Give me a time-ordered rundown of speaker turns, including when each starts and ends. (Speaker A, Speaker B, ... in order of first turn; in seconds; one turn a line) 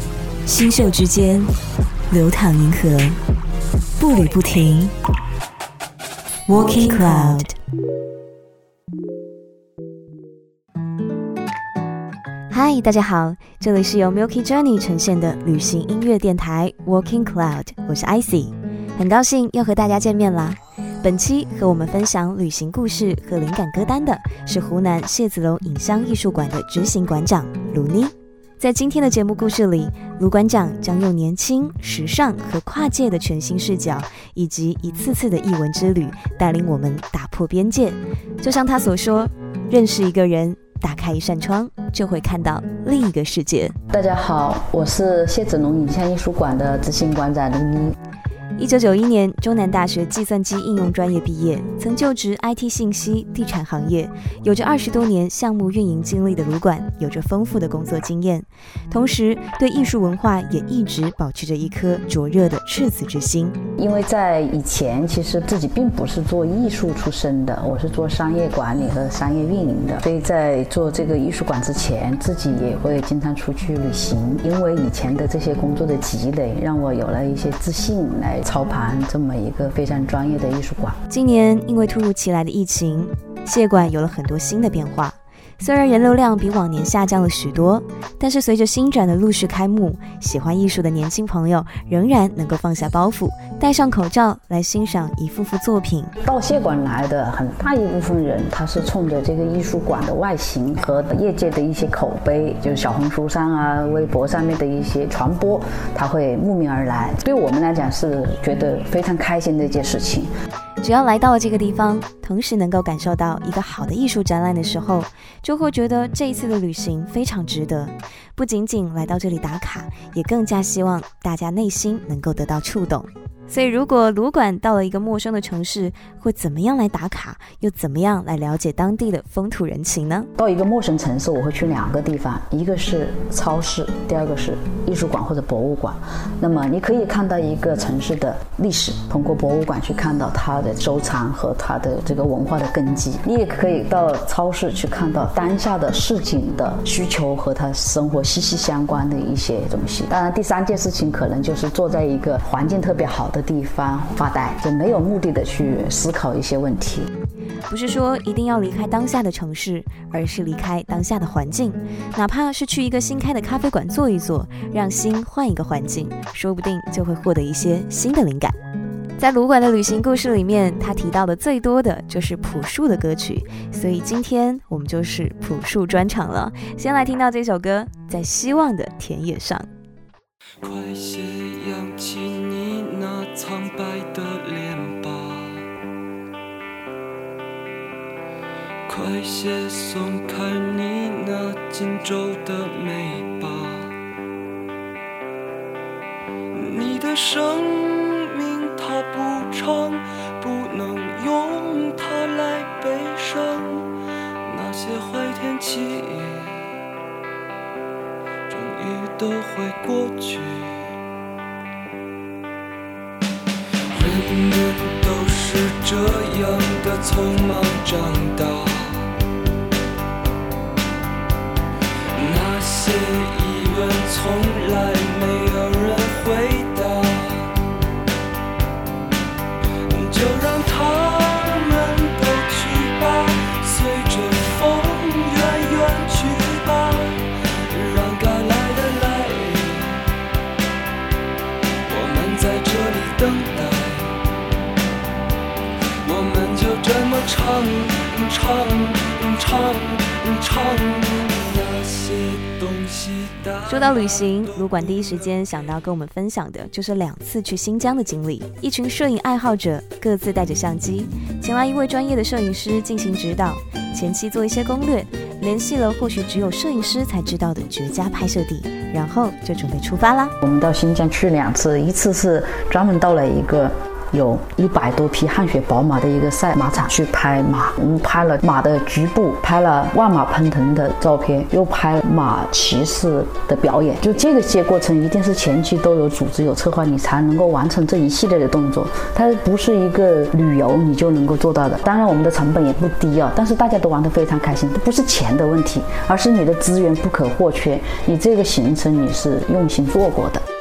Speaker A: 0.4-1.5
Speaker A: 2.1-3.2
Speaker A: 4.0-4.9
Speaker A: 6.5-7.6
Speaker A: 12.5-43.8
Speaker B: 43.9-47.9
Speaker A: 48.6-63.6
Speaker B: 63.8-81.0
Speaker A: 81.1-96.1
Speaker B: 96.2-110.3
Speaker A: 110.8-130.3
Speaker B: 130.4-157.1
Speaker A: 157.7-168.6
Speaker A: 169.2-179.7
Speaker C: 180.6-185.7
Speaker C: 188.9-193.9
Speaker C: 196.5-203.9
Speaker C: 204.4-206.6
Speaker C: 208.5-210.9
Speaker C: 213.9-219.1
Speaker C: 222.1-227.5
Speaker C: 229.8-240.0
Speaker C: 241.9-244.2
Speaker C: 246.0-255.0
Speaker A: 253.7-270.3
Speaker B: 270.4-300.4